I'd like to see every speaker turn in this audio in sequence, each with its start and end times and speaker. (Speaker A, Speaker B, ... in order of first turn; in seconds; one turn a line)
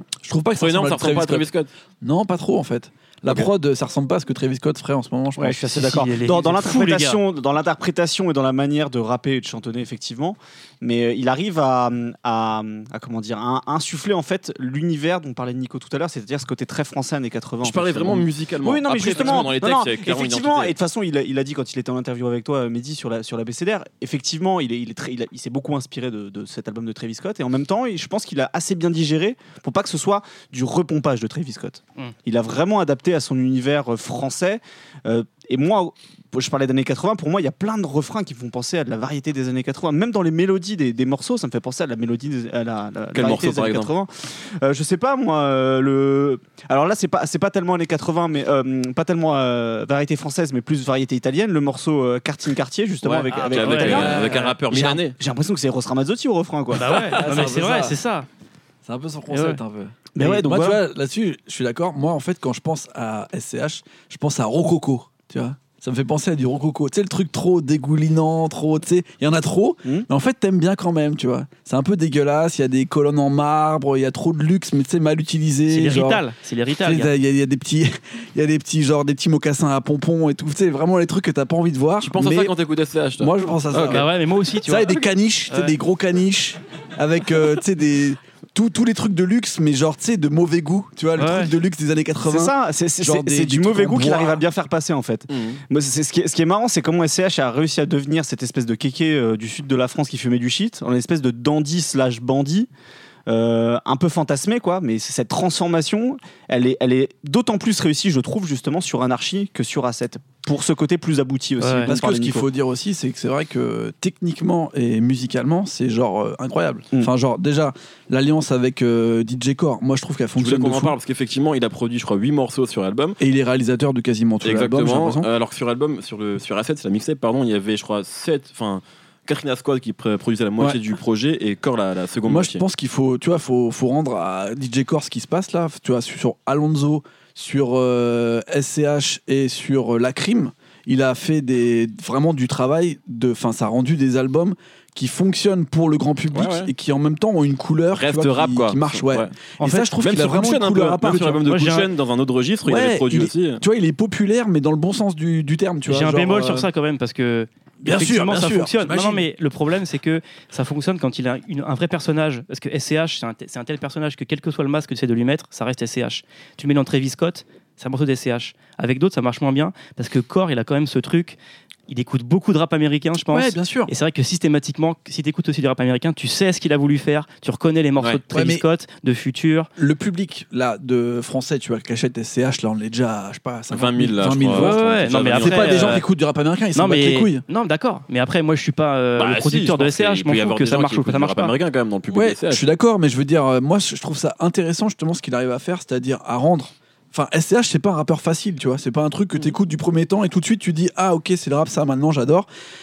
Speaker A: 0.2-1.5
Speaker B: 0.6-1.7
Speaker A: 2.0-5.6
Speaker C: 5.4-57.0
Speaker D: 5.6-7.2
Speaker B: 17.6-20.8
Speaker B: 43.1-43.9
Speaker B: 53.0-55.1
Speaker D: 53.3-54.4
Speaker A: 54.0-54.5
Speaker D: 56.7-58.3
Speaker A: 57.0-58.0
Speaker A: 58.8-76.2
Speaker D: 59.3-59.6
Speaker C: 60.1-60.8
Speaker D: 75.7-77.1
Speaker A: 76.8-82.5
Speaker B: 82.0-84.0
Speaker A: 83.2-84.1
Speaker D: 83.9-85.7
Speaker A: 84.6-94.4
Speaker D: 91.2-91.5
Speaker C: 92.2-102.7
Speaker B: 95.3-95.6
Speaker C: 103.3-112.5
Speaker D: 111.6-112.0
Speaker A: 111.9-121.0
Speaker B: 120.4-123.2
Speaker A: 123.2-125.3
Speaker B: 124.4-132.6
Speaker A: 132.2-151.4
Speaker B: 146.3-146.7
Speaker B: 147.9-149.3
Speaker D: 149.6-149.9
Speaker B: 150.0-153.6
Speaker D: 151.4-151.9
Speaker A: 152.6-156.7
Speaker D: 155.9-171.4
Speaker A: 157.8-159.2
Speaker D: 171.9-179.7
Speaker A: 173.3-173.9
Speaker A: 178.3-178.6
Speaker A: 179.8-187.4
Speaker B: 183.7-186.0
Speaker D: 184.5-186.0
Speaker D: 186.7-191.5
Speaker B: 189.2-192.6
Speaker A: 192.1-202.5